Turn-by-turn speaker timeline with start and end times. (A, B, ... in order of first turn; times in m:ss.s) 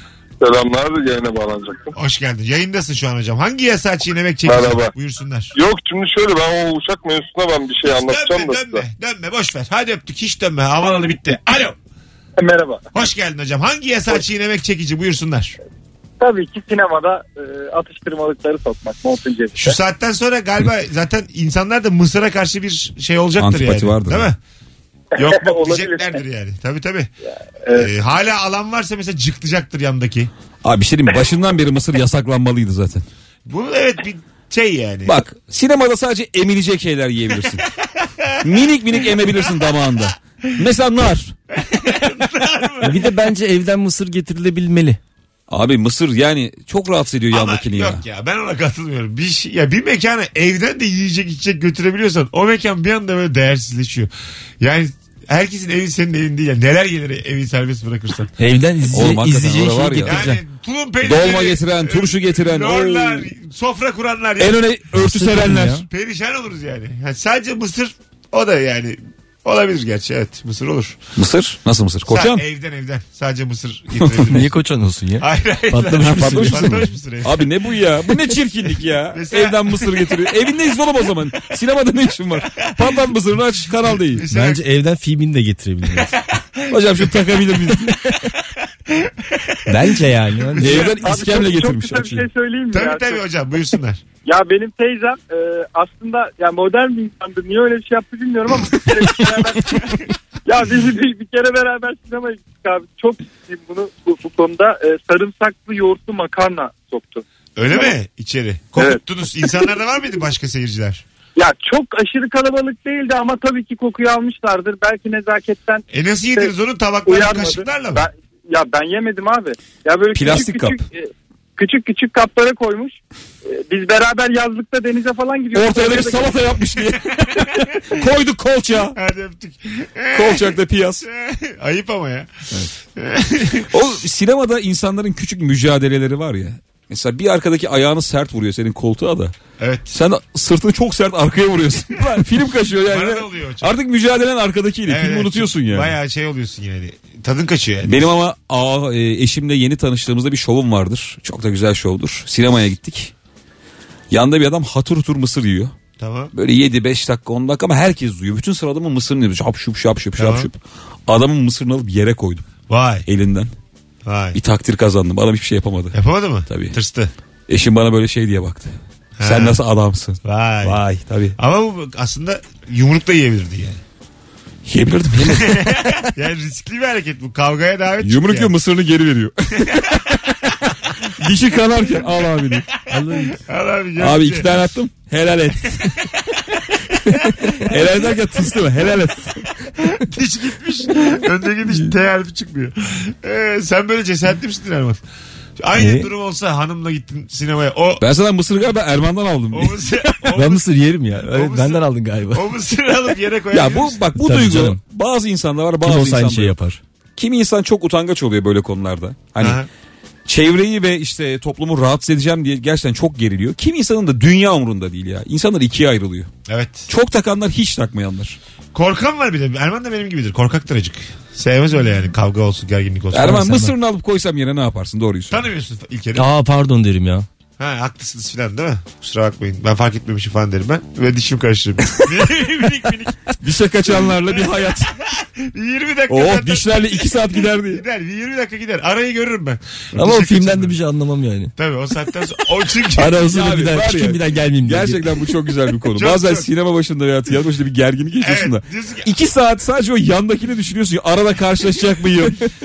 0:00.4-0:01.9 A
0:01.9-0:05.5 B
0:04.5-0:04.9 A
0:05.5-0:08.8 A
0:07.9-0:11.8 B
0:12.4-0:12.8 C
0:12.9-0:15.6 B
0:16.2-0:19.5 C
0:19.6-0:24.4 B
0:23.4-0:24.3 D
0:25.1-0:27.1 B
0:27.7-0:30.3 B
0:30.6-0:33.0 D
0:33.4-0:35.2 B
0:35.0-0:37.6 D
0:38.0-0:38.4 B
0:38.4-0:41.3 D
0:39.0-0:39.9 B
0:41.5-0:43.0 B
0:42.8-0:45.0 E
0:45.5-0:48.0 D
0:47.3-0:58.3 B
0:58.4-1:00.4 E
0:58.9-1:00.2 D
1:00.0-1:04.6 B
1:01.0-1:03.3 D
1:04.4-1:05.8 D
1:04.9-1:05.8 E
1:05.9-1:11.0 B
1:11.2-1:12.4 D
1:12.1-1:14.5 B
1:14.3-1:16.8 E
1:15.2-1:17.4 B
1:16.0-1:24.2 D
1:19.1-1:20.1 B
1:22.6-1:22.9 B
1:23.8-1:24.6 B
1:24.3-1:26.2 E
1:26.3-1:27.0 B
1:26.7-1:28.0 D
1:28.9-1:29.7 B
1:29.7-1:31.0 E
1:30.6-1:30.9 B
1:30.6-1:32.3 D
1:30.8-1:33.2 C
1:32.7-1:34.0 B
1:34.2-1:39.9 C
1:40.4-1:47.9 C
1:47.6-1:51.0 B
1:51.4-1:55.8 C
1:55.9-1:58.0 B
1:57.0-2:06.4 C
2:00.1-2:00.8 D
2:05.5-2:09.0 D
2:08.9-2:12.3 B
2:10.1-2:11.1 D
2:12.9-2:13.7 B
2:13.7-2:19.3 D
2:19.6-2:19.9 B
2:19.9-2:25.9 D
2:22.8-2:23.7 B
2:24.9-2:28.1 B
2:27.8-2:33.1 D
2:34.1-2:35.7 D
2:36.0-2:36.3 B
2:36.3-2:42.5 D
2:40.2-2:40.5 B
2:42.7-2:43.1 B
2:43.1-2:43.5 D
2:44.0-2:44.4 B
2:44.3-2:46.7 D
2:45.9-2:47.1 B
2:47.5-2:51.4 D
2:49.2-2:49.6 B
2:50.2-2:50.8 B
2:51.4-2:53.8 B
2:54.6-2:55.9 D
2:55.2-2:58.5 B
2:58.0-3:00.5 D
2:59.6-3:00.0 B
3:01.2-3:02.7 D
3:02.9-3:03.4 E
3:03.4-3:04.5 B
3:04.0-3:06.1 D
3:07.1-3:09.5 D
3:09.8-3:15.0 B
3:15.6-3:18.0 B
3:15.8-3:16.1 E
3:18.0-3:19.9 D
3:19.5-3:20.6 B
3:20.3-3:22.4 E
3:21.2-3:24.0 B
3:23.5-3:26.6 D
3:24.2-3:24.8 E
3:25.8-3:26.8 E
3:27.2-3:29.6 D
3:29.4-3:29.7 B
3:30.2-3:36.3 D
3:36.5-3:36.9 B
3:36.9-3:38.4 D
3:38.7-3:43.7 B
3:43.1-3:45.4 D
3:43.3-3:43.7 E
3:45.3-3:46.2 B
3:46.2-3:47.2 E
3:47.6-3:53.3 B
3:53.4-3:54.9 D
3:54.0-4:00.7 B
3:56.1-3:57.8 D
4:00.0-4:01.5 E
4:01.6-4:03.2 B
4:02.9-4:05.1 E
4:03.2-4:12.4 D
4:05.9-4:06.5 B
4:08.2-4:09.1 B